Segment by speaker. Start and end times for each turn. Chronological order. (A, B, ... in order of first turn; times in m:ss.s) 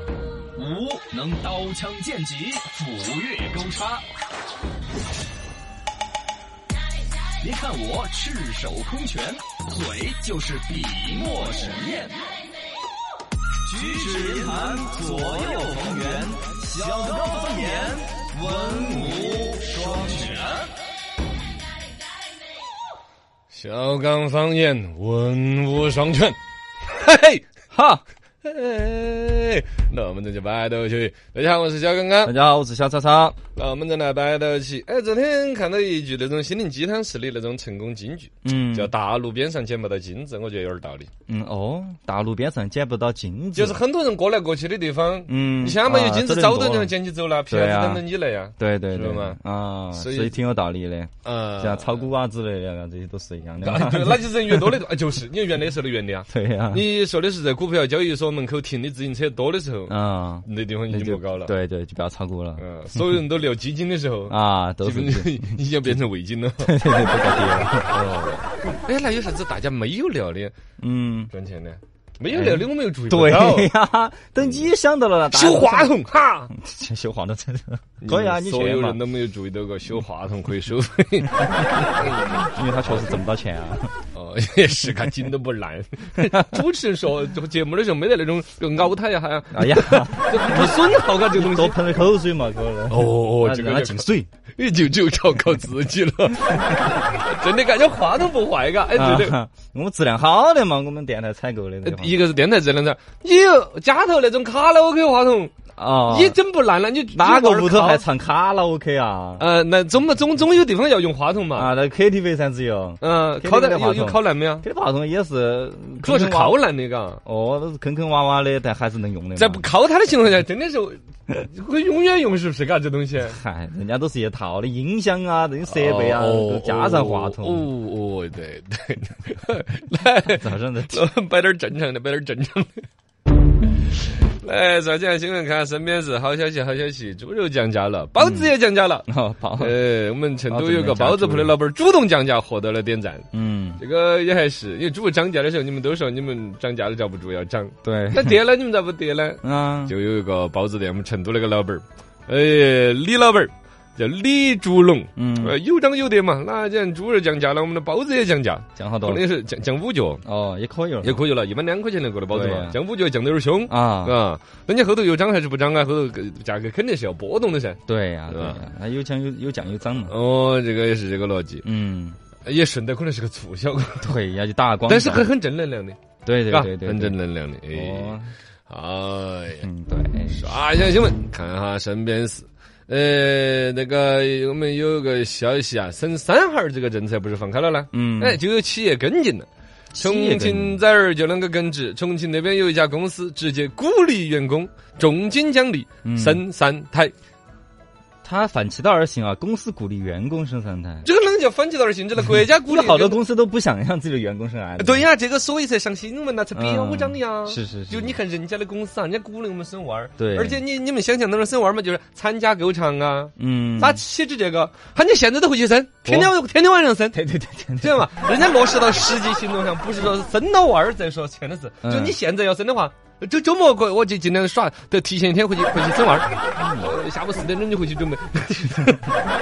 0:00.6-0:04.0 A
0:07.4-0:12.2 A
0:13.6-0:20.7 A
0:23.5-0:27.4 B
0:27.7-0:28.0 C
0:28.4-0:32.3 B
0:32.2-0:33.4 C
0:33.5-0:41.1 B
0:38.4-0:38.9 C
0:41.3-0:43.8 C
0:43.5-0:49.4 B
0:45.3-0:46.9 C
0:47.5-0:48.0 C
0:48.6-0:54.8 C
0:49.9-0:50.4 B
0:51.2-0:52.1 B
0:53.6-1:01.5 B
0:56.3-0:56.8 C
0:59.9-1:02.6 C
1:02.6-1:06.7 B
1:04.3-1:06.0 C
1:06.6-1:07.9 C
1:07.9-1:10.5 B
1:10.8-1:11.3 C
1:11.3-1:13.7 B
1:12.3-1:16.0 C
1:14.4-1:14.7 B
1:15.3-1:16.5 B
1:16.5-1:19.0 C
1:18.0-1:23.2 B
1:21.4-1:21.8 C
1:22.4-1:23.9 C
1:24.1-1:31.8 B
1:26.2-1:26.6 C
1:29.5-1:34.3 C
1:32.9-1:39.4 B
1:38.9-1:42.2 C
1:41.8-1:45.5 B
1:45.8-1:46.4 C
1:46.1-1:48.0 B
1:47.1-1:49.4 C
1:49.4-1:51.7 B
1:51.5-1:56.6 C
1:53.0-1:54.6 B
1:56.0-1:57.2 B
1:57.2-1:59.7 C
1:59.4-2:03.4 B
2:03.2-2:07.7 C
2:05.7-2:12.8 B
2:10.3-2:11.0 C
2:13.8-2:19.1 B
2:18.2-2:18.6 C
2:19.1-2:19.8 C
2:19.6-2:23.2 B
2:20.5-2:21.5 C
2:23.3-2:23.8 C
2:23.8-2:40.2 B
2:27.8-2:28.4 C
2:29.4-2:29.9 C
2:35.2-2:35.6 C
2:38.8-2:39.2 C
2:40.2-2:41.2 C
2:41.0-2:48.6 B
2:42.3-2:42.8 C
2:43.7-2:44.2 C
2:47.9-2:50.1 C
2:50.1-2:51.6 B
2:51.6-2:52.2 C
2:52.4-2:54.2 B
2:54.0-2:55.3 C
2:54.9-2:59.7 B
2:56.2-2:57.2 C
2:57.7-2:58.3 C
2:59.6-3:00.4 C
3:00.3-3:09.5 B
3:07.9-3:08.4 C
3:09.9-3:10.8 C
3:10.0-3:17.1 B
3:16.0-3:16.4 C
3:18.2-3:21.0 C
3:21.0-3:23.2 B
3:22.3-3:25.1 C
3:24.8-3:49.1 B
3:26.5-3:28.2 C
3:30.2-3:30.6 C
3:33.4-3:34.0 C
3:36.0-3:36.3 C
3:37.1-3:38.0 C
3:41.8-3:42.2 C
3:46.6-3:46.9 C